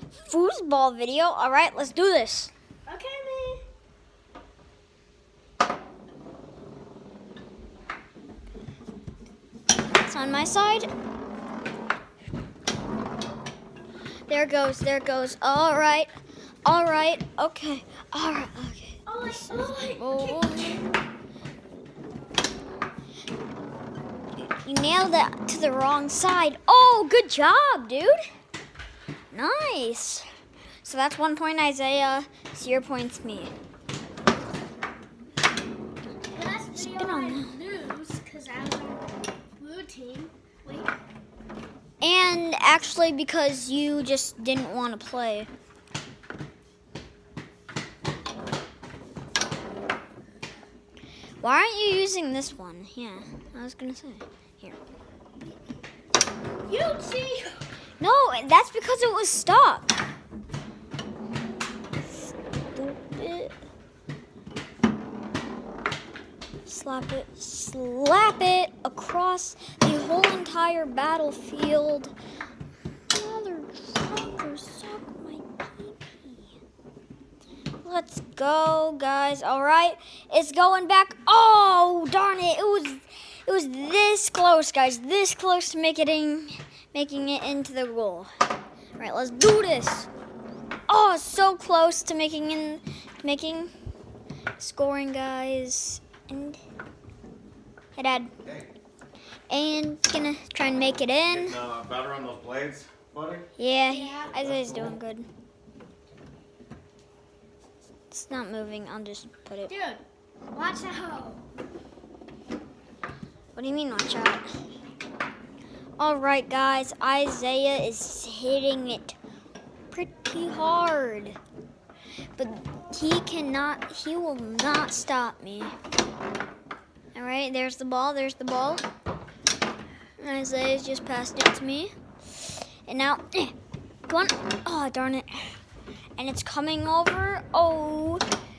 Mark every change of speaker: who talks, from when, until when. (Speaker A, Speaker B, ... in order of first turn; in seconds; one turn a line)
Speaker A: 0.3-2.5
Speaker B: 2.9-3.6
Speaker A: 10.0-10.9
Speaker A: 14.3-16.1
Speaker A: 16.6-20.8
Speaker B: 19.1-20.8
Speaker A: 24.6-28.2
Speaker A: 29.3-30.3
Speaker A: 30.8-33.5
Speaker B: 36.3-40.9
Speaker A: 36.8-37.5
Speaker A: 42.0-45.5
Speaker A: 51.4-54.8
Speaker B: 56.7-57.6
Speaker A: 58.0-60.0
Speaker A: 62.1-63.5
Speaker A: 66.7-72.1
Speaker A: 73.1-76.6
Speaker A: 77.8-88.3
Speaker A: 89.0-90.1
Speaker A: 90.9-93.7
Speaker A: 94.6-96.6
Speaker A: 98.0-98.3
Speaker A: 99.5-101.6
Speaker C: 101.5-103.5
Speaker A: 103.6-105.3
Speaker B: 103.9-104.4
Speaker A: 108.1-109.7
Speaker B: 109.7-111.4
Speaker A: 113.5-114.5
Speaker A: 116.0-119.2
Speaker A: 119.9-121.4
Speaker A: 122.4-125.8
Speaker A: 127.1-128.8
Speaker A: 130.2-133.6
Speaker A: 134.1-135.6
Speaker A: 136.2-138.2